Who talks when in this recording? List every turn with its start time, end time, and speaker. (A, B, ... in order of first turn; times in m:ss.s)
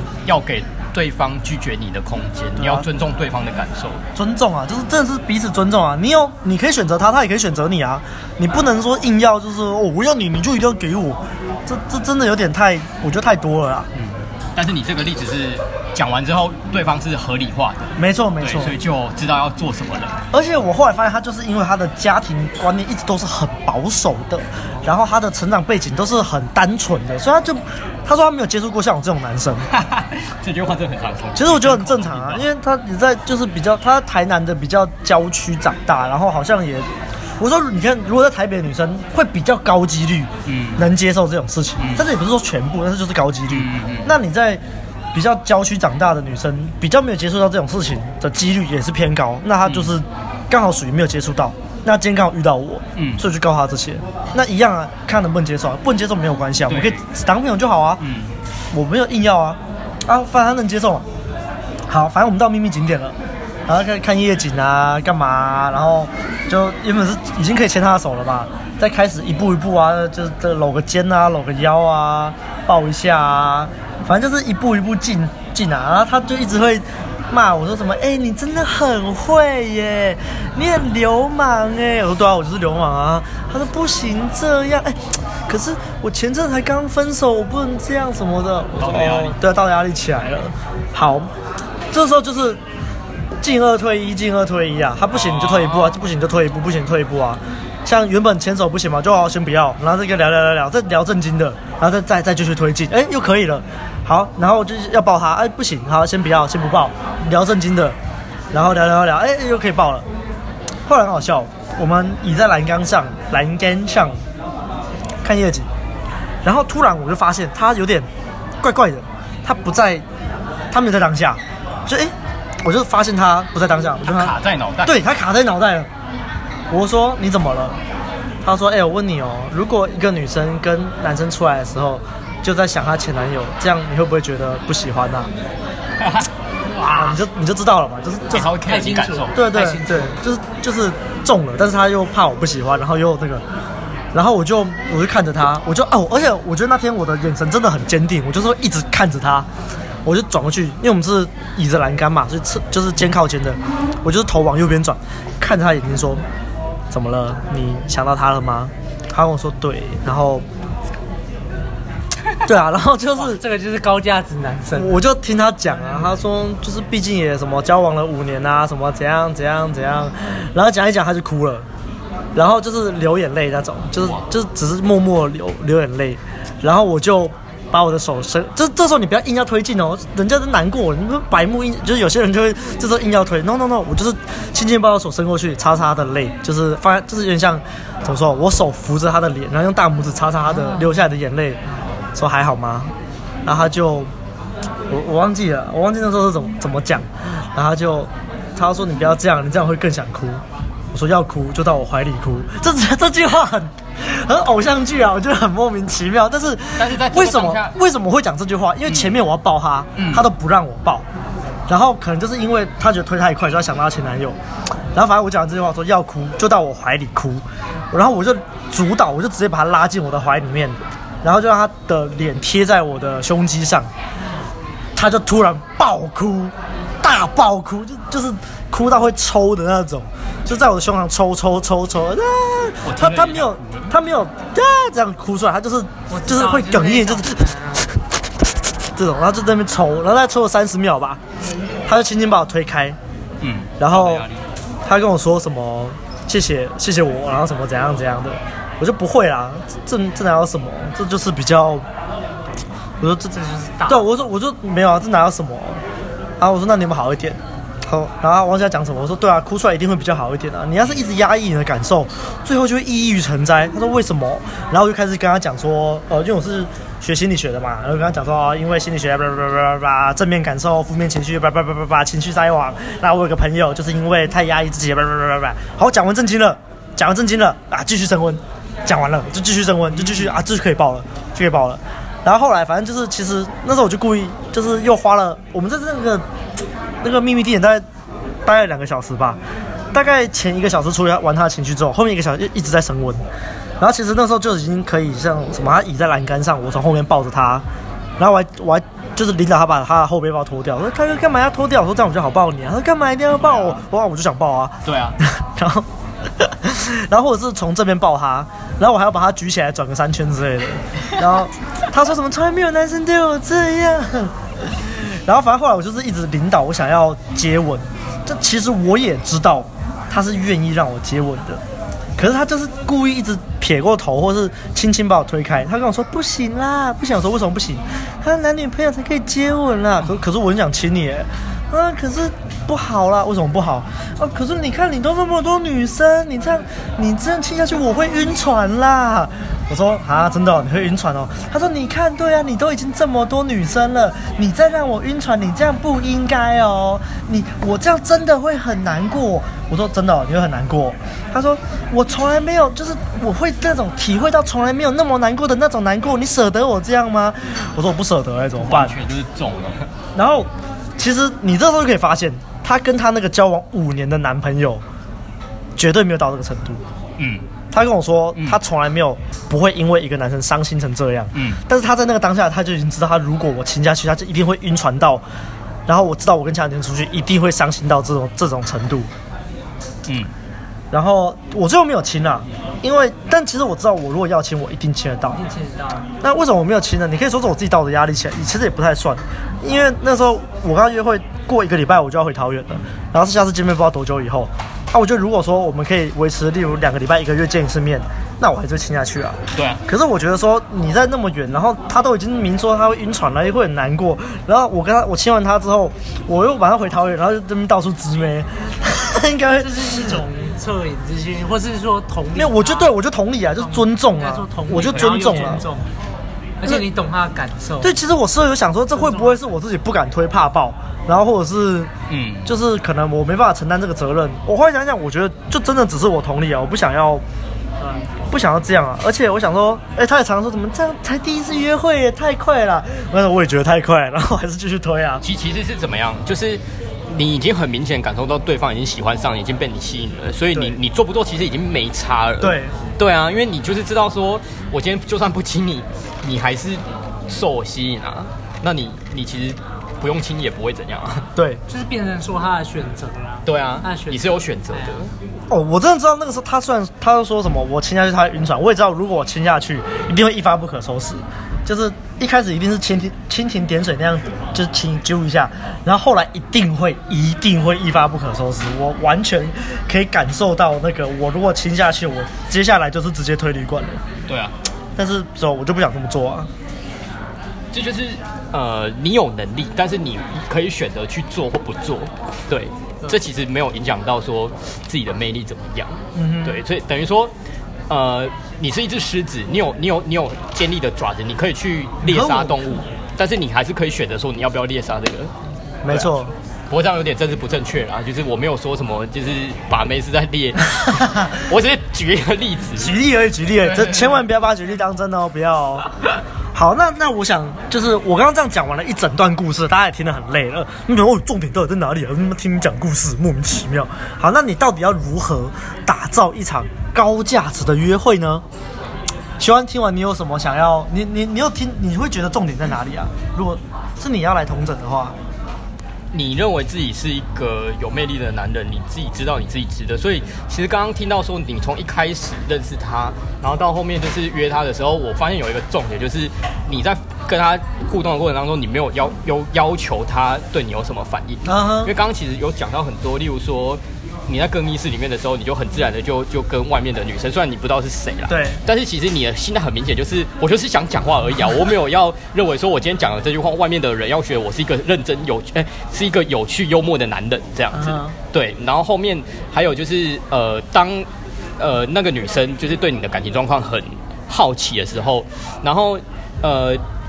0:00.2-0:04.0 A
0:02.6-0:02.9 B
0:04.1-0:13.9 B
0:13.9-0:20.2 A
0:18.0-0:18.7 B
0:20.3-0:29.7 B
0:29.7-0:32.4 A
0:31.4-0:36.9 B
0:37.4-0:44.6 B
0:40.4-0:40.9 A
0:41.8-0:42.0 A
0:43.5-0:44.1 A
0:45.1-0:58.0 B
0:49.6-0:49.9 A
0:53.0-0:53.2 A
0:56.7-0:57.0 A
0:58.0-0:58.3 A
0:58.7-1:01.0 B
1:01.9-1:03.2 B
1:03.7-1:31.3 B
1:28.8-1:29.4 A
1:31.9-1:32.6 B
1:33.4-1:48.0 B
1:35.1-1:36.0 A
1:48.5-1:50.0 B
1:50.8-1:54.2 B
1:55.2-1:55.7 B
1:56.4-1:58.1 B
1:58.6-2:00.0 B
2:00.7-2:04.3 B
2:04.0-2:05.0 A
2:04.8-2:05.9 B
2:06.7-2:07.8 B
2:08.4-2:15.3 B
2:16.0-2:17.2 A
2:16.9-2:18.5 B
2:18.3-2:19.5 A
2:18.6-2:20.2 C
2:19.3-2:23.4 B
2:24.1-2:29.5 B
2:30.0-2:36.2 B
2:36.9-2:40.4 B
2:42.4-2:43.4 B
2:43.2-2:45.0 C
2:44.7-2:51.7 B
2:52.3-3:11.6 B
3:10.5-3:11.1 C
3:12.1-3:12.9 B
3:13.4-3:14.1 B
3:14.9-3:31.0 B
3:26.8-3:27.7 A
3:28.8-3:29.1 A
3:30.0-3:30.2 A
3:31.7-3:34.4 B
3:34.9-3:43.9 B
3:45.0-3:58.2 B
3:52.8-3:53.9 A
3:56.1-3:57.9 C
3:58.8-4:01.2 B
4:01.8-4:03.0 B
4:03.4-4:04.4 A
4:03.8-4:04.2 B
4:04.8-4:11.8 B
4:13.0-4:13.4 B
4:13.3-4:14.2 C
4:13.9-4:15.8 B
4:16.4-4:46.2 B
4:39.9-4:40.4 A
4:47.0-4:47.8 B
4:48.4-4:49.4 B
4:49.9-4:53.2 B
4:53.8-4:57.6 B
4:58.2-5:21.6 B
5:03.4-5:03.8 A
5:04.8-5:05.2 A
5:22.2-5:59.0 B
5:58.6-5:59.9 A
6:00.1-6:04.8 B
6:05.8-6:06.8 B
6:07.2-6:07.4 A
6:07.7-6:15.2 B
6:11.3-6:11.6 A
6:15.9-6:19.1 B
6:20.9-6:25.4 B
6:25.3-6:26.1 C
6:26.2-6:50.2 B
6:39.5-6:39.8 A
6:49.6-6:52.9 C
6:52.4-6:55.6 B
6:53.6-6:55.9 C
6:54.8-6:55.1 A
6:56.6-6:57.9 C
6:57.8-7:01.9 B
6:59.0-6:59.3 C
7:02.1-7:02.5 A
7:02.4-7:07.2 B
7:07.8-7:08.0 C
7:08.3-7:15.2 B
7:15.2-7:31.3 A
7:22.4-7:22.8 B
7:31.4-7:31.6 B
7:31.7-7:35.0 C
7:33.4-7:35.1 A
7:35.5-7:54.0 B
7:54.3-7:54.5 A
7:55.0-7:56.5 B
7:57.7-8:07.3 A
8:06.1-8:06.6 B
8:07.9-8:15.3 A
8:12.0-8:12.7 B
8:15.8-8:16.3 B
8:15.9-8:23.0 A
8:20.8-8:21.4 B
8:22.8-8:25.8 B
8:23.5-8:24.2 A
8:26.5-8:38.4 B
8:39.4-8:45.2 B
8:46.1-9:26.8 A
9:01.4-9:01.9 B
9:08.3-9:08.6 B
9:17.7-9:18.1 B